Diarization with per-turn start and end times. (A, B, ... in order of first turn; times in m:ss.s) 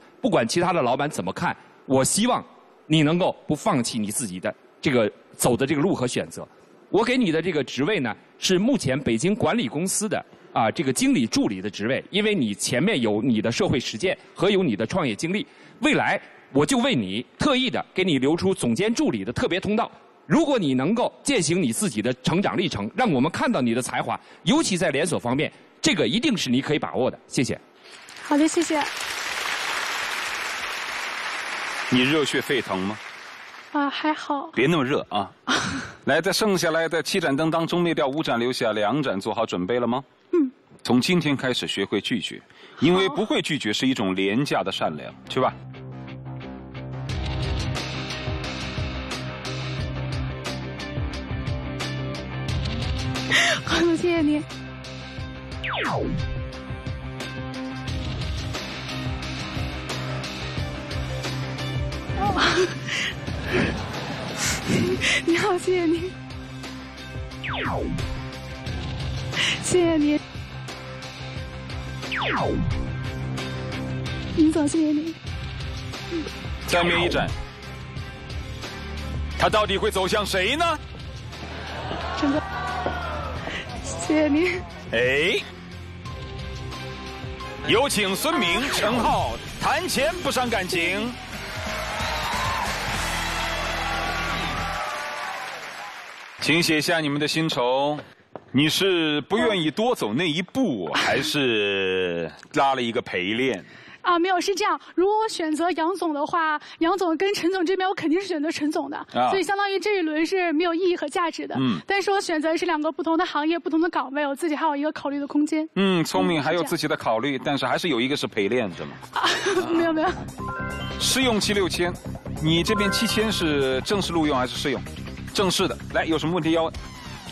0:00.2-0:27.6 A
0:28.2-0:28.9 B
0:31.9-0:33.0 C
0:33.7-0:34.5 B
0:34.5-0:35.3 C
0:35.5-0:35.8 B
0:36.0-0:40.0 C
0:40.8-0:45.6 C
0:42.8-0:43.2 B
0:53.3-0:54.4 B
1:02.2-1:03.1 B
1:04.7-1:06.1 B
1:09.4-1:10.2 B
1:14.4-1:15.2 B
1:16.6-1:17.3 C
1:19.4-1:20.8 C
1:23.8-1:24.6 B
1:24.9-1:25.4 C
1:27.6-1:31.2 C
1:36.4-1:43.7 C
1:44.0-1:56.7 B
1:49.1-1:49.4 C
1:51.5-1:51.8 C
1:55.7-1:59.0 C
1:59.1-2:00.2 B
1:59.6-1:59.9 C
2:01.0-2:06.7 C